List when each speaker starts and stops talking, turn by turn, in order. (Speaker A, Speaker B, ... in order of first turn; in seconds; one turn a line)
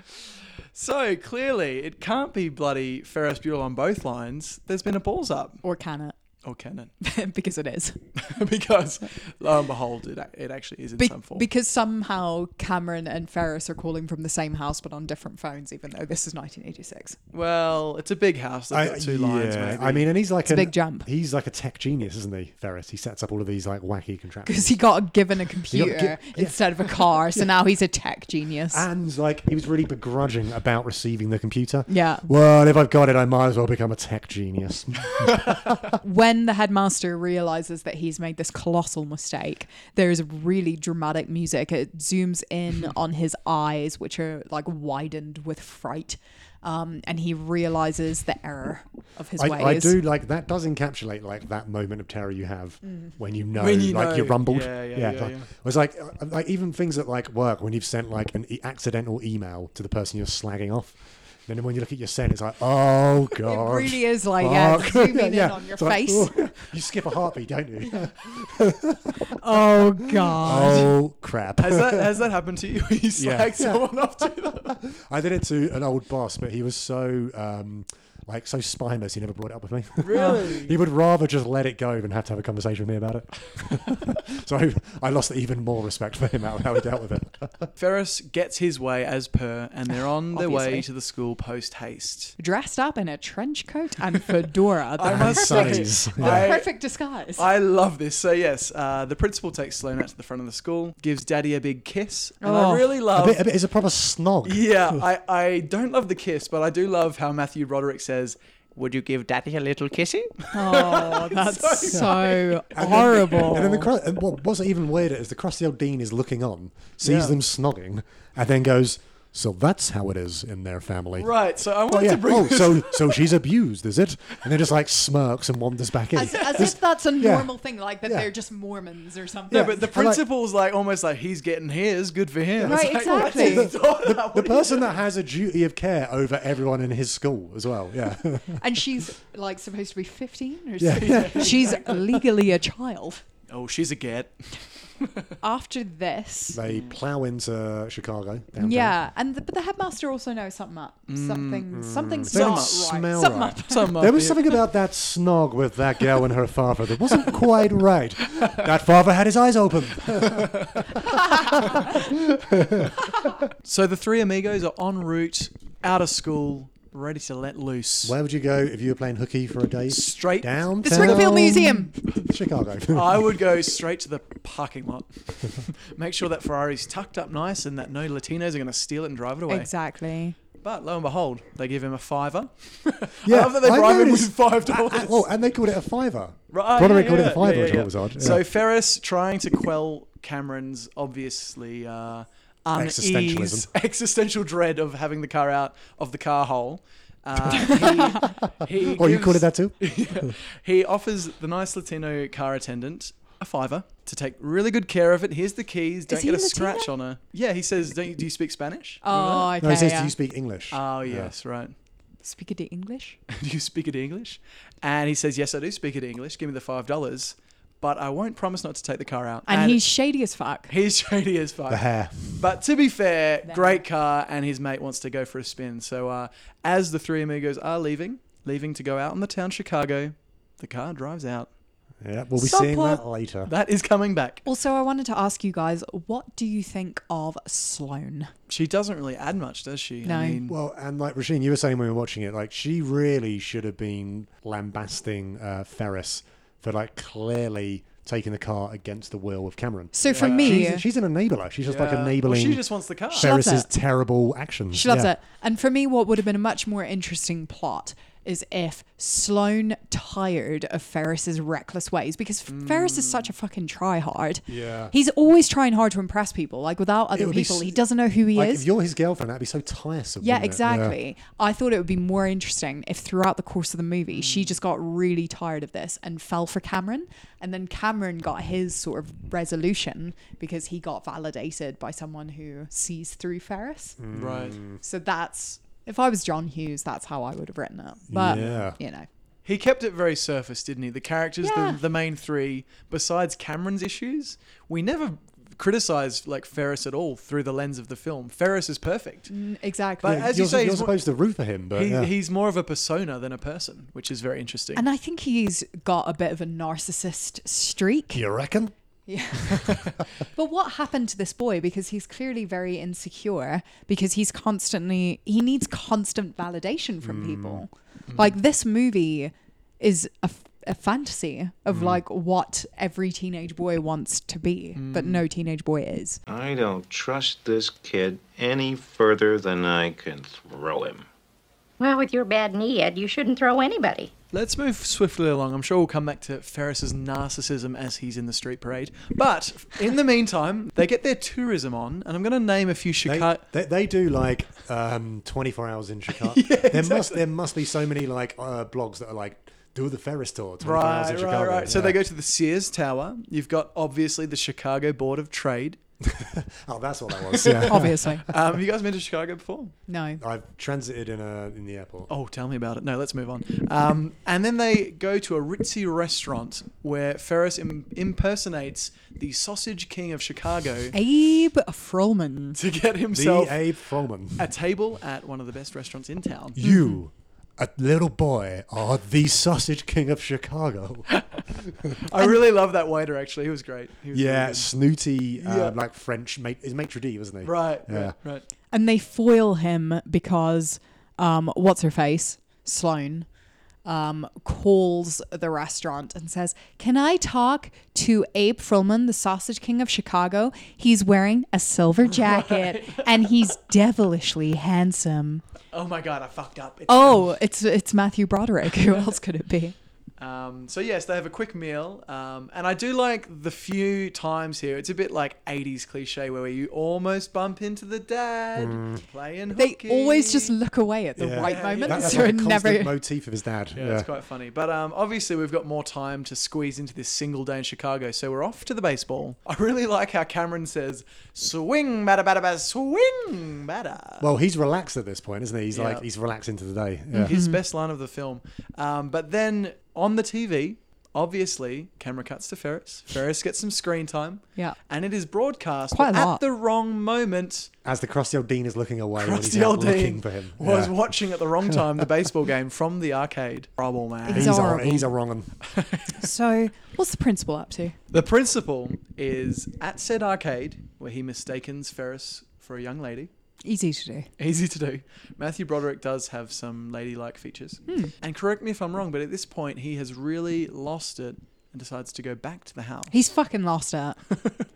Speaker A: 0.2-5.6
Speaker B: 5.6-6.2
Speaker A: 6.4-6.9
Speaker B: 7.0-8.0
Speaker A: 8.2-11.5
Speaker B: 11.0-17.2
Speaker A: 17.3-20.1
Speaker C: 18.7-24.8
Speaker B: 20.5-21.1
Speaker B: 24.5-28.9
Speaker C: 25.7-27.5
Speaker C: 28.7-35.9
Speaker B: 31.9-32.3
Speaker B: 36.0-50.0
Speaker C: 49.4-69.4
Speaker B: 52.9-53.1
Speaker A: 53.5-55.5
Speaker B: 63.4-66.7
Speaker B: 69.3-70.9
Speaker C: 70.2-72.2
Speaker A: 71.6-74.8
Speaker C: 73.2-87.7
Speaker A: 80.0-80.8
Speaker B: 80.1-80.4
Speaker A: 87.8-92.3
Speaker B: 90.0-90.9
Speaker B: 92.4-97.5
Speaker A: 95.0-96.7
Speaker C: 95.1-96.6
Speaker A: 97.3-103.5
Speaker B: 102.4-103.0
Speaker C: 103.1-105.0
Speaker A: 104.5-113.4
Speaker B: 110.5-113.9
Speaker C: 112.8-121.3
Speaker A: 117.0-117.4
Speaker A: 121.2-123.2
Speaker C: 121.8-128.3
Speaker B: 126.2-129.8
Speaker C: 129.5-130.2
Speaker A: 129.5-135.0
Speaker C: 132.6-139.0
Speaker B: 132.6-133.7
Speaker B: 138.6-143.2
Speaker C: 140.8-142.2
Speaker A: 141.0-141.9
Speaker A: 143.5-145.3
Speaker B: 145.4-146.6
Speaker C: 146.5-149.0
Speaker A: 146.7-146.9
Speaker B: 148.6-154.0
Speaker A: 151.1-151.7
Speaker C: 151.7-163.0
Speaker A: 152.3-153.0
Speaker A: 153.7-154.5
Speaker A: 160.3-160.7
Speaker A: 163.6-168.2
Speaker C: 168.0-173.4
Speaker A: 169.9-171.5
Speaker B: 170.8-171.9
Speaker A: 172.9-179.7
Speaker B: 179.5-180.4
Speaker A: 180.6-185.3
Speaker C: 183.2-188.4
Speaker A: 186.5-209.6
Speaker C: 192.8-193.7
Speaker C: 198.2-200.3
Speaker B: 206.1-206.9
Speaker B: 209.0-210.1
Speaker C: 209.6-211.3
Speaker A: 210.7-211.7
Speaker B: 212.2-213.2
Speaker A: 213.3-219.8
Speaker B: 219.5-220.7
Speaker A: 220.7-231.5
Speaker C: 221.7-222.4
Speaker B: 223.4-223.8
Speaker C: 232.0-233.5
Speaker A: 232.4-234.4
Speaker B: 234.4-238.3
Speaker A: 238.5-240.6
Speaker B: 240.0-240.4
Speaker C: 240.5-255.1
Speaker B: 249.9-250.8
Speaker A: 250.1-250.7
Speaker A: 251.7-253.3
Speaker B: 253.2-253.7
Speaker B: 254.7-268.7
Speaker A: 262.5-263.3
Speaker C: 264.5-264.9
Speaker C: 267.1-271.0
Speaker B: 270.2-284.0
Speaker A: 274.2-274.5
Speaker C: 284.0-284.8
Speaker A: 284.1-284.6
Speaker B: 284.8-289.1
Speaker C: 288.1-288.8
Speaker A: 288.3-288.7
Speaker A: 289.4-299.3
Speaker B: 291.4-291.8
Speaker B: 299.3-300.3
Speaker A: 300.0-301.0
Speaker C: 300.0-302.1
Speaker A: 301.7-304.9
Speaker B: 304.8-308.2
Speaker C: 308.1-308.7
Speaker B: 309.1-326.2
Speaker C: 317.0-317.6
Speaker A: 318.1-318.3
Speaker C: 321.7-322.0
Speaker A: 324.8-325.2
Speaker D: 326.3-331.1
Speaker E: 331.8-334.1
Speaker A: 334.3-343.4
Speaker C: 343.1-352.0
Speaker A: 346.1-347.2
Speaker A: 350.6-355.8
Speaker C: 356.0-358.4
Speaker A: 357.3-359.8
Speaker B: 357.7-358.2
Speaker B: 359.9-360.2
Speaker C: 360.2-362.1
Speaker A: 362.1-370.9
Speaker B: 370.9-372.6
Speaker A: 372.6-376.6
Speaker C: 373.1-374.5
Speaker C: 376.6-381.1
Speaker B: 376.6-377.0
Speaker A: 381.1-384.7
Speaker C: 384.1-388.2
Speaker A: 385.4-385.8
Speaker A: 387.4-388.4
Speaker B: 388.7-393.3
Speaker B: 393.9-405.4
Speaker A: 402.1-403.3
Speaker A: 405.7-407.4
Speaker B: 406.9-409.8
Speaker A: 410.2-420.6
Speaker C: 418.6-419.0
Speaker B: 419.6-422.9
Speaker C: 421.2-424.1
Speaker A: 421.4-422.4
Speaker A: 423.7-434.3
Speaker C: 434.2-437.4
Speaker A: 435.7-436.1
Speaker B: 437.1-437.6
Speaker A: 437.2-447.7
Speaker B: 445.9-446.4
Speaker C: 447.9-451.1
Speaker A: 449.2-455.0
Speaker C: 451.6-452.1
Speaker B: 454.2-455.1
Speaker C: 454.3-455.6
Speaker A: 455.6-456.2
Speaker B: 456.2-458.0
Speaker A: 458.1-463.3
Speaker B: 463.6-464.3
Speaker A: 464.4-473.2
Speaker B: 467.9-468.1
Speaker B: 473.1-474.2